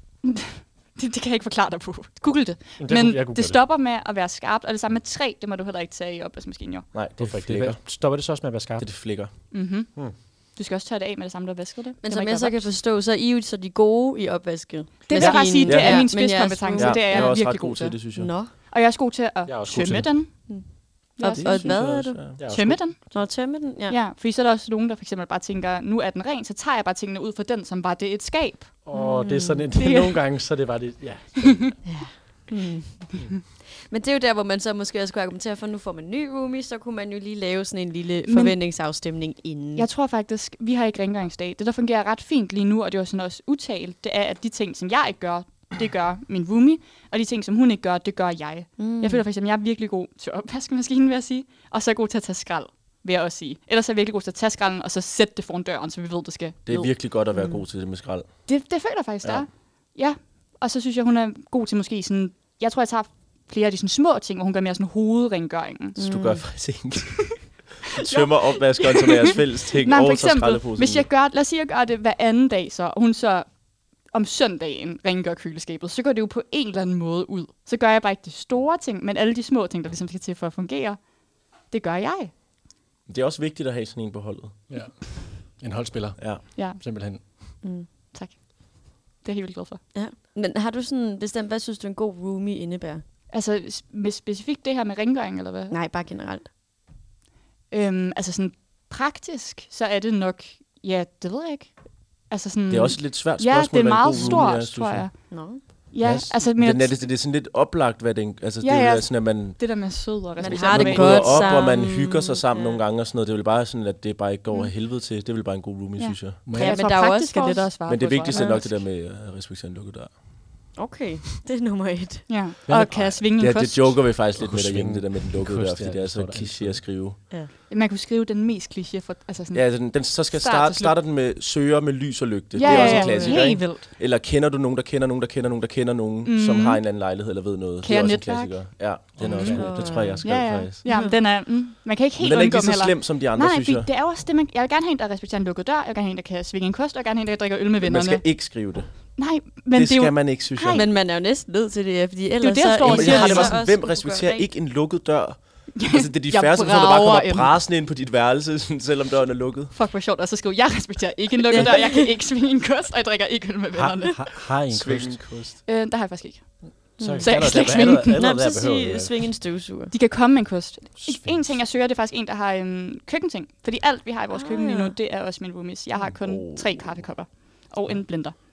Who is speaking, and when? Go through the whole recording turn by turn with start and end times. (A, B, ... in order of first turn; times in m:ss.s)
0:00.2-0:06.8 A
0:02.8-0:03.6 B
0:06.9-0:07.8 C
0:07.2-0:08.9 B
0:08.8-0:09.3 C
0:09.5-0:12.7 A
0:12.0-0:17.4 D
0:15.1-0:20.5 A
0:15.2-0:18.3 C
0:18.1-0:18.5 D
0:19.4-0:20.3 B
0:20.4-0:22.4 D
0:21.2-0:22.0 A
0:21.2-0:22.5 C
0:22.4-0:22.9 B
0:22.5-0:28.8 A
0:23.1-0:24.0 D
0:28.8-0:31.9 B
0:28.9-0:30.1 D
0:31.8-0:39.9 D
0:38.2-0:38.6 A
0:39.7-0:57.0 A
0:48.8-0:49.2 D
0:56.6-0:58.5 C
0:57.3-0:57.6 D
0:58.4-1:06.0 A
1:06.0-1:06.5 D
1:06.0-1:11.1 C
1:08.0-1:22.3 A
1:23.1-1:24.6 C
1:24.7-1:27.2 B
1:26.2-1:26.4 C
1:26.6-1:29.8 A
1:27.6-1:27.9 D
1:29.9-1:33.0 D
1:33.3-1:35.7 A
1:35.7-1:36.5 D
1:37.7-1:46.9 A
1:42.7-1:45.1 C
1:44.1-1:44.5 B
1:45.3-1:45.6 D
1:46.0-1:46.4 B
1:46.6-1:56.4 C
1:48.6-1:51.6 A
1:50.4-1:52.8 D
1:56.0-1:58.6 A
1:56.4-1:56.8 B
1:56.5-1:58.8 D
1:57.8-2:00.6 C
2:00.8-2:02.3 D
2:02.3-2:04.0 A
2:02.7-2:03.2 B
2:03.3-2:07.2 C
2:04.3-2:06.9 B
2:07.7-2:11.0 A
2:09.5-2:20.8 C
2:12.5-2:13.9 A
2:12.6-2:13.6 D
2:16.2-2:16.8 A
2:17.8-2:19.6 A
2:19.2-2:20.3 B
2:19.5-2:20.2 D
2:20.2-2:28.4 A
2:20.8-2:21.1 D
2:22.2-2:23.9 C
2:27.8-2:29.2 C
2:29.2-2:30.9 A
2:29.7-2:30.9 C
2:30.7-2:34.5 D
2:32.4-2:33.6 A
2:32.8-2:39.7 C
2:35.8-2:37.5 A
2:39.7-2:44.3 A
2:41.5-2:42.0 D
2:43.7-2:45.2 B
2:44.7-2:45.6 C
2:45.6-2:48.2 A
2:47.0-2:49.3 B
2:47.0-2:49.9 D
2:49.9-2:58.4 A
2:51.0-2:51.6 B
2:54.3-2:55.0 D
2:56.0-2:57.0 C